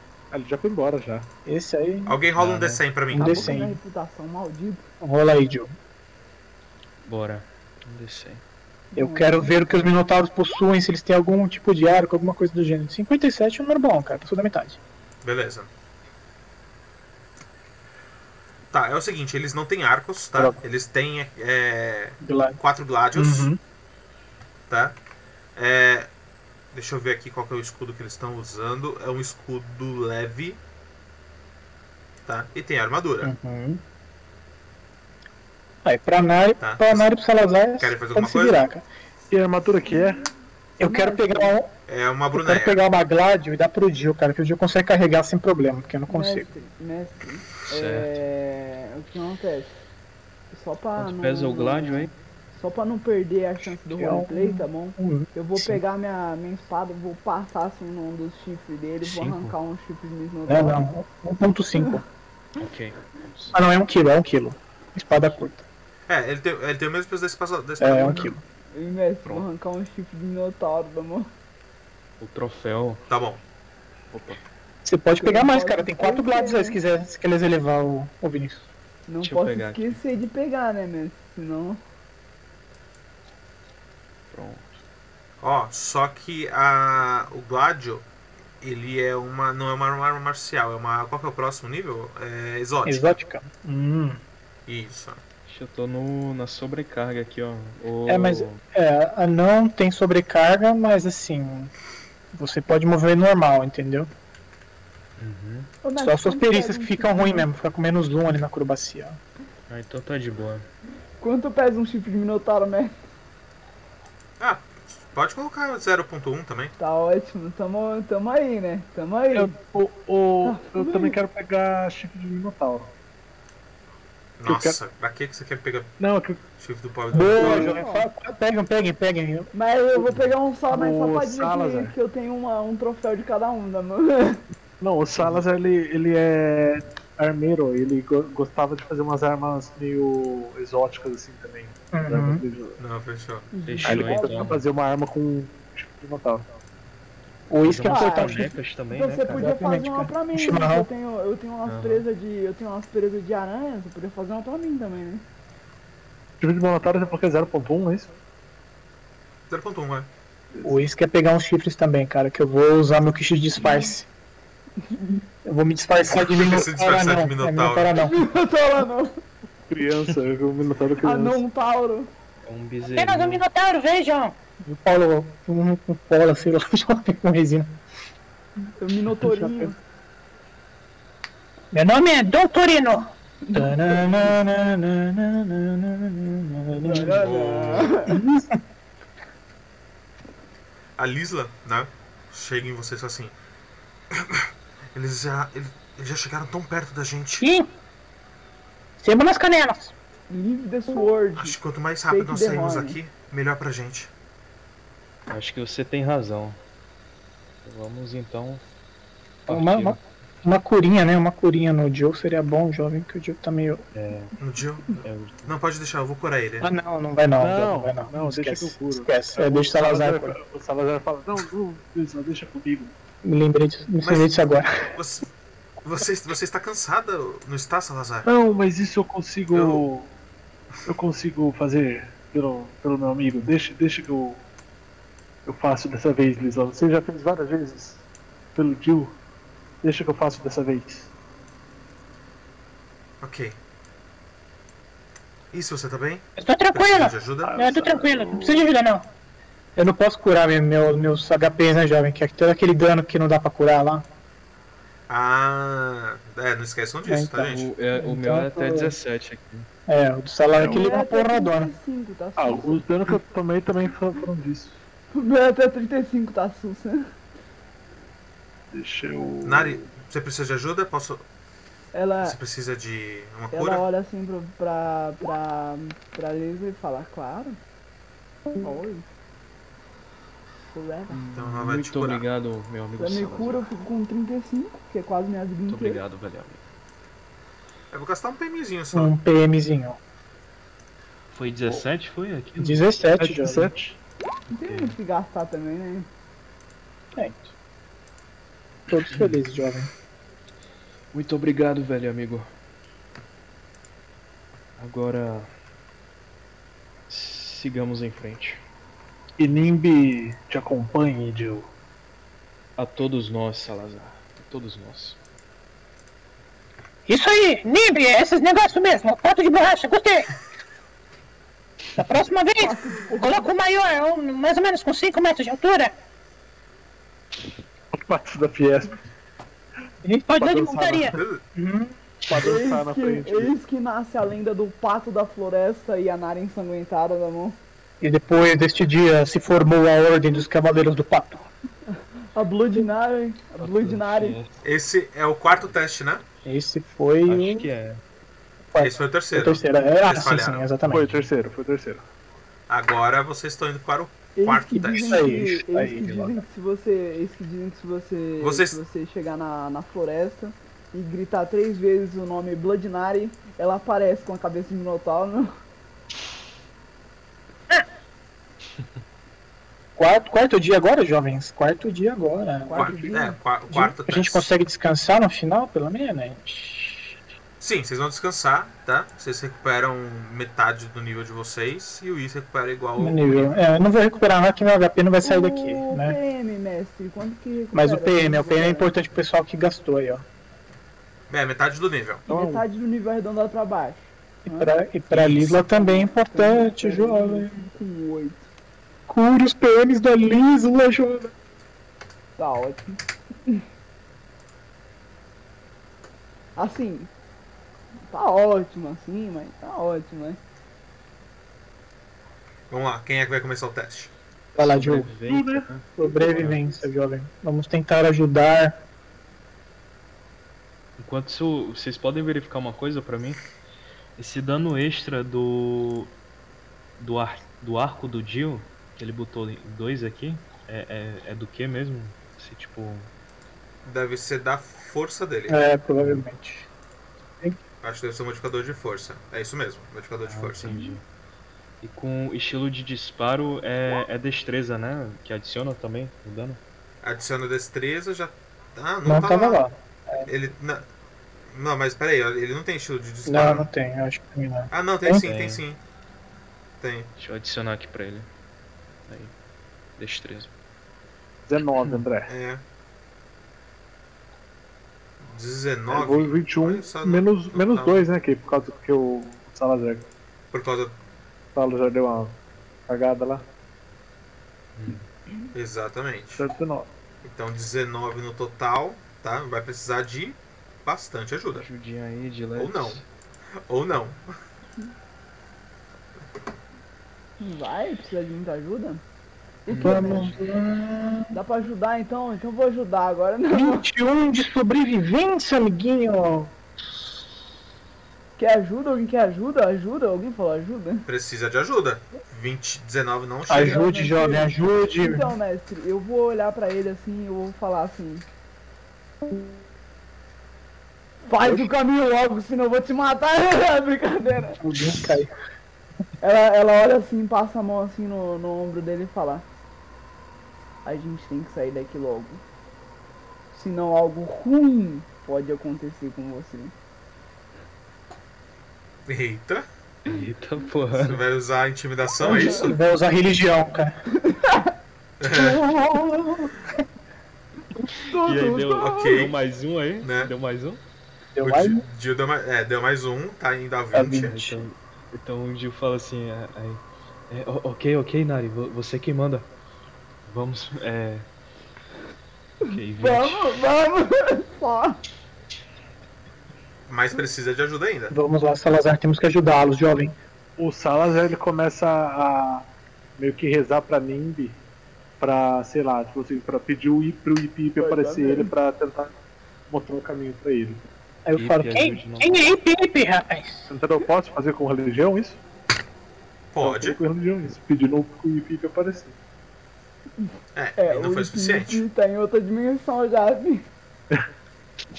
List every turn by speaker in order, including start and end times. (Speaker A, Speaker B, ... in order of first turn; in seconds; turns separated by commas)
Speaker A: 0.3-1.3, Speaker B: 1.5-2.1, Speaker C: 2.1-3.5, Speaker D: 2.4-2.8, Speaker B: 3.1-3.8, Speaker E: 3.2-4.9, Speaker B: 5.0-5.7, Speaker D: 7.0-8.4, Speaker E: 8.9-9.9, Speaker B: 8.9-14.8, Speaker C: 15.2-15.7, Speaker C: 18.7-23.5, Speaker B: 22.2-22.6, Speaker B: 23.1-23.6, Speaker C: 24.7-25.0, Speaker C: 25.6-26.1, Speaker C: 26.7-30.6, Speaker C: 32.3-33.3, Speaker B: 33.2-33.8, Speaker B: 35.8-38.9, Speaker C: 36.6-37.1, Speaker C: 37.8-38.7, Speaker A: 39.3-40.3, Speaker E: 39.9-40.2, Speaker B: 40.8-41.7, Speaker E: 40.8-41.6, Speaker C: 41.9-42.8, Speaker B: 42.3-46.5, Speaker E: 46.1-49.7, Speaker D: 47.7-48.2, Speaker E: 50.5-60.8, Speaker D: 51.0-52.1, Speaker B: 53.9-55.8, Speaker D: 59.0-59.5, Speaker B: 60.5-62.0, Speaker D: 62.6-63.6, Speaker B: 63.5-65.7, Speaker C: 66.1-68.3, Speaker B: 67.8-68.4, Speaker E: 68.7-71.3, Speaker D: 72.2-73.0, Speaker C: 73.1-73.4, Speaker D: 74.1-74.4, Speaker B: 74.8-78.7, Speaker E: 75.1-76.8, Speaker E: 79.1-81.8, Speaker D: 79.2-80.0, Speaker D: 84.3-84.8, Speaker C: 85.4-88.1, Speaker C: 88.6-93.2, Speaker B: 92.8-94.2, Speaker C: 94.7-95.2, Speaker D: 95.5-98.6, Speaker B: 98.1-101.7, Speaker B: 102.3-104.1, Speaker D: 105.2-105.7, Speaker E: 105.8-107.5, Speaker B: 106.0-109.2, Speaker D: 109.7-110.7, Speaker E: 111.2-112.9, Speaker C: 114.4-116.7, Speaker E: 116.8-119.5, Speaker A: 119.3-122.9, Speaker E: 120.5-121.2, Speaker C: 124.4-125.9, Speaker A: 124.5-124.8, Speaker A: 126.0-126.4, Speaker C: 126.6-127.8, Speaker B: 127.1-129.5, Speaker E: 127.3-128.1, Speaker E: 129.5-134.4, Speaker A: 130.7-131.9, Speaker A: 134.8-142.8, Speaker B: 141.9-142.4, Speaker C: 142.8-143.5, Speaker E: 143.5-144.6, Speaker D: 143.7-144.6, Speaker A: 143.8-146.5, Speaker B: 147.5-148.5, Speaker D: 147.6-149.5, Speaker E: 147.8-155.2, Speaker B: 149.3-150.9, Speaker D: 151.7-152.1, Speaker A: 156.4-158.1, Speaker C: 159.5-160.1, Speaker B: 160.6-164.1, Speaker E: 164.8-165.2, Speaker B: 165.4-168.2, Speaker C: 166.2-168.0, Speaker E: 168.0-169.2, Speaker A: 169.7-171.4, Speaker E: 171.0-172.1, Speaker D: 172.4-173.4, Speaker F: 172.9-174.3, Speaker B: 174.8-177.7, Speaker E: 178.8-179.8, Speaker B: 179.2-179.7, Speaker B: 181.7-182.2, Speaker F: 182.2-183.1, Speaker E: 183.4-184.4, Speaker B: 183.5-187.2, Speaker E: 186.8-188.2, Speaker C: 187.2-188.1, Speaker B: 188.1-188.6, Speaker C: 191.0-193.3, Speaker C: 194.1-197.5, Speaker F: 197.4-197.7, Speaker F: 199.0-199.9, Speaker E: 200.3-201.6, Speaker C: 201.4-204.1, Speaker E: 202.1-203.0, Speaker D: 205.3-206.6, Speaker D: 207.6-208.6, Speaker D: 209.5-210.0, Speaker B: 209.5-213.8, Speaker D: 213.9-214.3, Speaker C: 214.4-216.7, Speaker D: 215.0-215.6, Speaker B: 216.6-220.4, Speaker A: 217.4-222.9, Speaker B: 223.2-224.9, Speaker C: 224.0-225.3, Speaker C: 225.8-228.3, Speaker A: 228.2-230.1, Speaker C: 229.5-229.8, Speaker A: 230.9-234.4, Speaker A: 235.5-238.0, Speaker A: 238.6-239.2, Speaker A: 239.8-241.1, Speaker C: 243.2-243.6, Speaker C: 245.5-247.6, Speaker F: 246.4-249.0, Speaker A: 247.4-248.6, Speaker B: 249.8-254.1, Speaker C: 255.1-257.7, Speaker B: 257.1-258.9, Speaker D: 257.4-259.7, Speaker B: 259.9-261.7, Speaker A: 260.6-260.9, Speaker E: 260.6-262.9, Speaker A: 262.4-264.8, Speaker E: 265.1-267.1, Speaker A: 268.7-269.9, Speaker C: 269.4-271.2, Speaker E: 271.9-272.4, Speaker C: 272.2-273.9, Speaker E: 273.5-277.6, Speaker E: 278.6-279.1, Speaker E: 280.7-281.2, Speaker D: 281.1-283.7, Speaker C: 281.3-282.2, Speaker E: 283.0-286.0, Speaker D: 285.7-286.6, Speaker C: 287.9-289.2, Speaker B: 288.9-290.0, Speaker D: 291.3-292.9, Speaker B: 292.6-293.7, Speaker A: 293.2-294.0, Speaker D: 294.5-295.0, Speaker E: 294.5-296.1, Speaker B: 297.1-297.5, Speaker B: 298.9-299.9, Speaker D: 299.1-299.4, Speaker D: 301.1-302.5, Speaker D: 304.8-305.5, Speaker D: 307.1-308.6, Speaker A: 309.4-311.7, Speaker D: 312.8-315.2, Speaker F: 317.1-320.3, Speaker F: 322.0-325.9, Speaker E: 322.6-323.5, Speaker A: 327.9-329.0, Speaker B: 330.1-332.0, Speaker A: 330.4-331.1, Speaker F: 330.4-331.2, Speaker C: 331.1-331.4, Speaker A: 332.3-333.6, Speaker E: 332.3-337.6, Speaker B: 338.0-341.5, Speaker E: 342.3-344.4, Speaker D: 343.6-344.6, Speaker C: 344.6-346.2, Speaker B: 346.4-347.7, Speaker D: 347.3-348.0, Speaker B: 348.7-351.1, Speaker C: 348.8-350.7, Speaker A: 350.9-352.0, Speaker D: 350.9-351.3, Speaker C: 352.7-355.4, Speaker E: 354.4-365.5, Speaker B: 354.8-356.4, Speaker C: 358.4-358.8, Speaker B: 370.0-373.1, Speaker E: 372.6-373.4, Speaker C: 372.7-374.5, Speaker B: 373.7-377.2, Speaker C: 377.6-383.6, Speaker B: 383.0-386.2, Speaker E: 385.2-388.9, Speaker B: 387.7-390.2, Speaker C: 391.3-392.2, Speaker E: 392.3-394.7, Speaker A: 392.3-392.7, Speaker B: 394.5-397.6, Speaker C: 395.1-395.6, Speaker E: 395.6-398.5, Speaker B: 399.1-401.3, Speaker E: 402.4-403.6, Speaker E: 406.6-407.1, Speaker E: 408.1-410.4, Speaker C: 412.7-414.1, Speaker B: 414.6-415.1, Speaker D: 414.6-416.6, Speaker A: 415.2-415.7, Speaker B: 416.0-418.8, Speaker D: 421.0-423.4, Speaker D: 424.2-426.1, Speaker D: 427.0-433.1, Speaker C: 433.9-435.6, Speaker B: 435.5-436.7, Speaker C: 437.8-440.8, Speaker D: 440.3-441.0, Speaker D: 441.8-446.6, Speaker C: 447.0-449.7, Speaker B: 449.1-450.3, Speaker C: 450.3-450.9, Speaker C: 451.5-453.7, Speaker B: 453.3-455.2, Speaker C: 454.7-455.8, Speaker D: 455.2-455.6, Speaker C: 456.8-457.1, Speaker D: 457.2-458.3, Speaker D: 459.1-459.3, Speaker D: 460.0-460.5, Speaker A: 461.5-462.3, Speaker C: 462.3-462.6, Speaker C: 465.2-468.1, Speaker A: 465.9-470.1, Speaker C: 470.5-471.0, Speaker A: 471.6-472.4, Speaker A: 472.9-473.4, Speaker D: 474.8-475.1, Speaker C: 475.5-476.5, Speaker A: 476.4-476.9, Speaker C: 477.2-481.7, Speaker D: 481.5-483.1, Speaker C: 482.6-483.0, Speaker C: 483.7-484.3, Speaker E: 487.4-489.0, Speaker E: 489.7-490.4, Speaker D: 489.7-490.4, Speaker B: 489.8-491.3, Speaker E: 491.3-493.9, Speaker B: 493.5-496.5, Speaker E: 498.4-501.1, Speaker C: 501.1-503.9, Speaker B: 503.5-505.4, Speaker E: 503.5-508.2, Speaker E: 511.3-514.6, Speaker B: 514.6-515.3, Speaker E: 516.2-519.5, Speaker E: 520.8-522.4, Speaker E: 523.5-526.7, Speaker C: 529.1-529.7, Speaker D: 530.0-531.2, Speaker C: 530.9-532.8, Speaker B: 532.2-534.0, Speaker E: 532.3-532.7, Speaker E: 534.2-534.7, Speaker C: 535.2-535.6, Speaker B: 535.3-536.8, Speaker E: 538.0-539.3, Speaker D: 538.2-540.8, Speaker C: 538.8-539.4, Speaker C: 540.0-540.3, Speaker B: 541.4-541.8, Speaker C: 541.4-544.5, Speaker B: 543.9-544.6, Speaker D: 544.2-549.5, Speaker D: 550.3-551.3, Speaker D: 552.6-553.6, Speaker E: 553.0-555.0, Speaker C: 556.9-558.1, Speaker B: 558.1-560.1, Speaker A: 560.6-564.6, Speaker A: 565.2-569.1, Speaker E: 567.8-568.5, Speaker A: 569.7-570.8, Speaker B: 571.3-572.0, Speaker D: 571.4-572.5, Speaker F: 572.2-573.7, Speaker A: 573.7-575.4, Speaker C: 576.5-577.0, Speaker A: 576.6-579.2, Speaker C: 580.5-581.8, Speaker E: 580.8-583.6